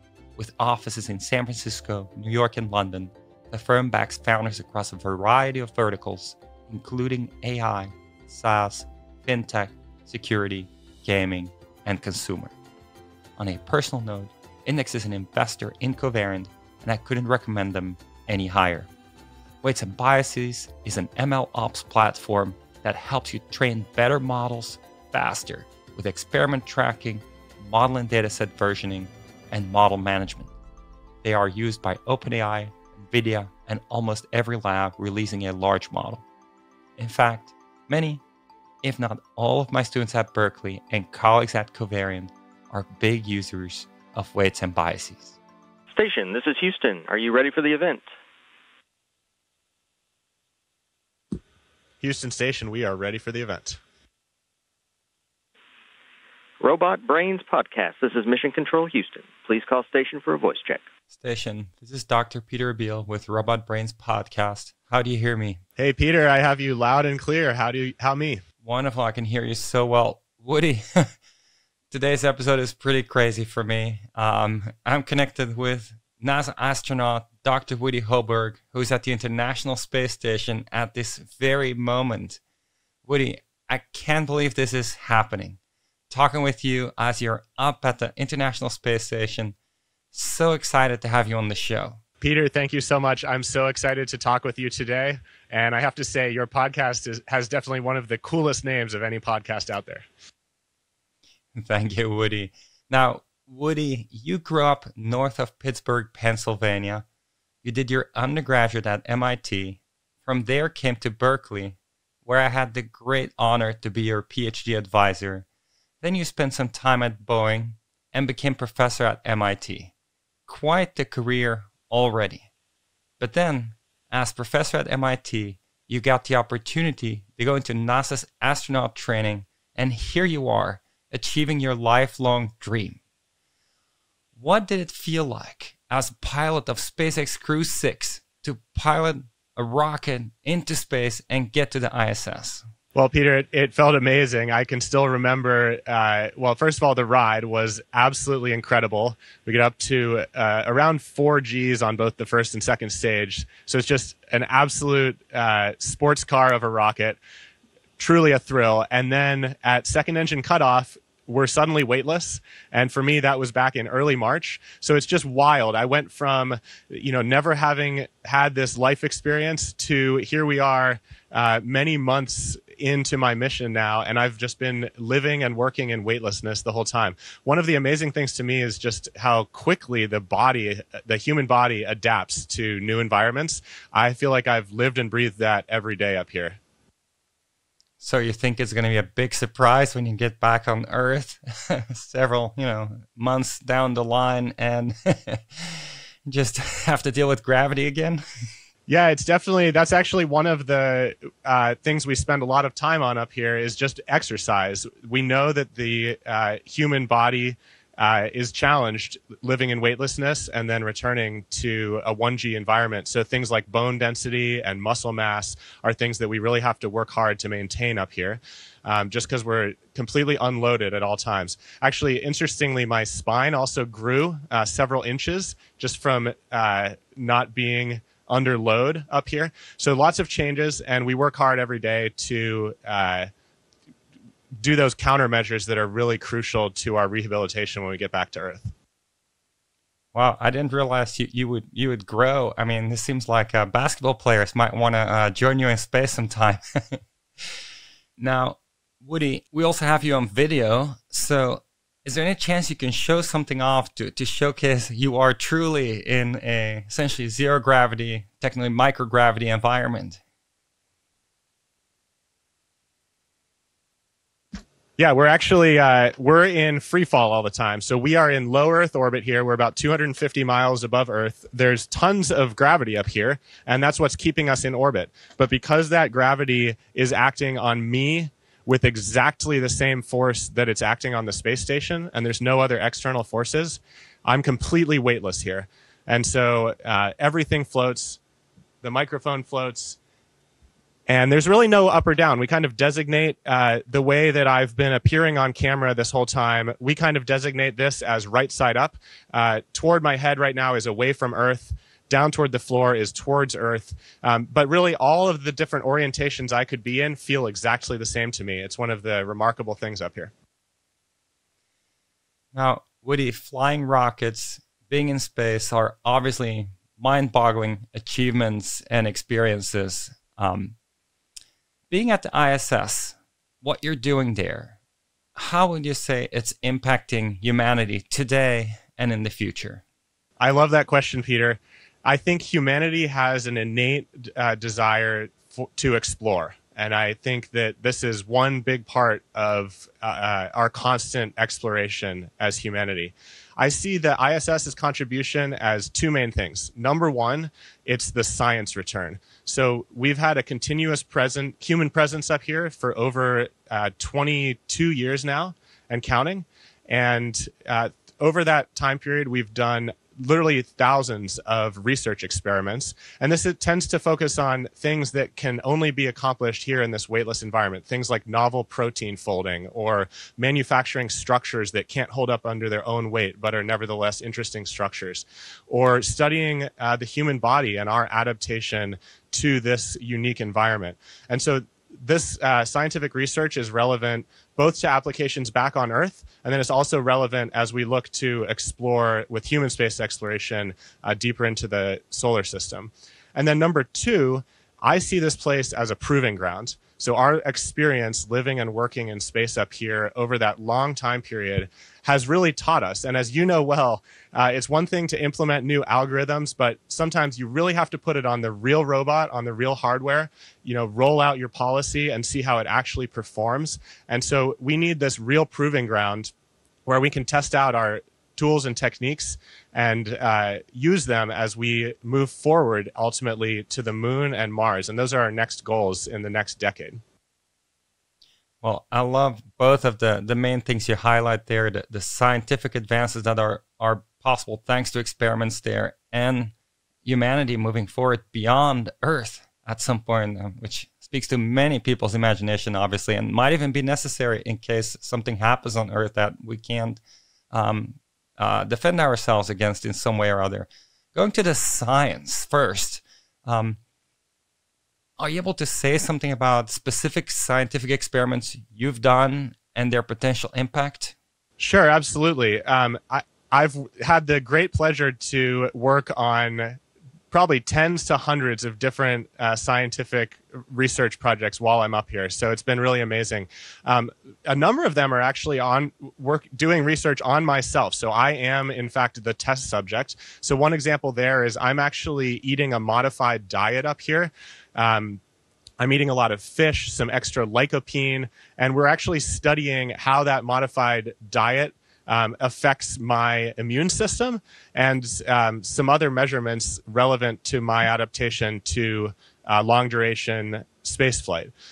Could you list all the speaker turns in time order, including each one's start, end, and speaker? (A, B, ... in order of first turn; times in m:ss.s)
0:00.4-0:12.6 A
0:13.4-0:18.9 A
0:19.6-0:30.5 A
0:31.2-0:36.2 A
0:37.0-0:38.2 A
0:38.8-0:45.4 A
0:45.9-0:48.1 B
0:52.0-0:53.8 C
0:56.6-1:00.8 B
1:01.1-1:05.6 A
1:05.8-1:08.4 C
1:08.6-1:10.8 A
1:11.9-1:22.4 A
1:23.0-1:25.6 A
1:26.1-1:29.6 A
1:30.1-1:32.0 A
1:32.2-1:40.0 C
1:41.5-1:47.0 A
1:47.6-1:55.5 A
1:56.0-1:59.9 A
2:00.5-2:02.5 A
2:03.2-2:13.0 A
2:14.4-2:22.6 A
2:23.0-2:37.2 C
2:38.0-3:06.6 C
3:08.0-3:18.2 A
3:18.9-3:53.3 C
3:54.6-3:58.7 C
4:00.1-4:07.0 A
4:08.2-4:20.2 A
4:25.0-4:48.2 C
4:48.8-4:50.0 C
4:51.1-5:10.3 C
5:12.5-5:20.8 A
5:21.9-5:24.8 A
5:25.4-5:29.8 A
5:30.4-6:56.3 C
6:56.9-7:07.0 C
7:08.6-7:16.5 A
7:17.0-7:33.8 A
7:35.2-7:41.2 A
7:41.6-7:46.8 C
7:47.3-8:05.2 C
8:05.8-8:21.5 C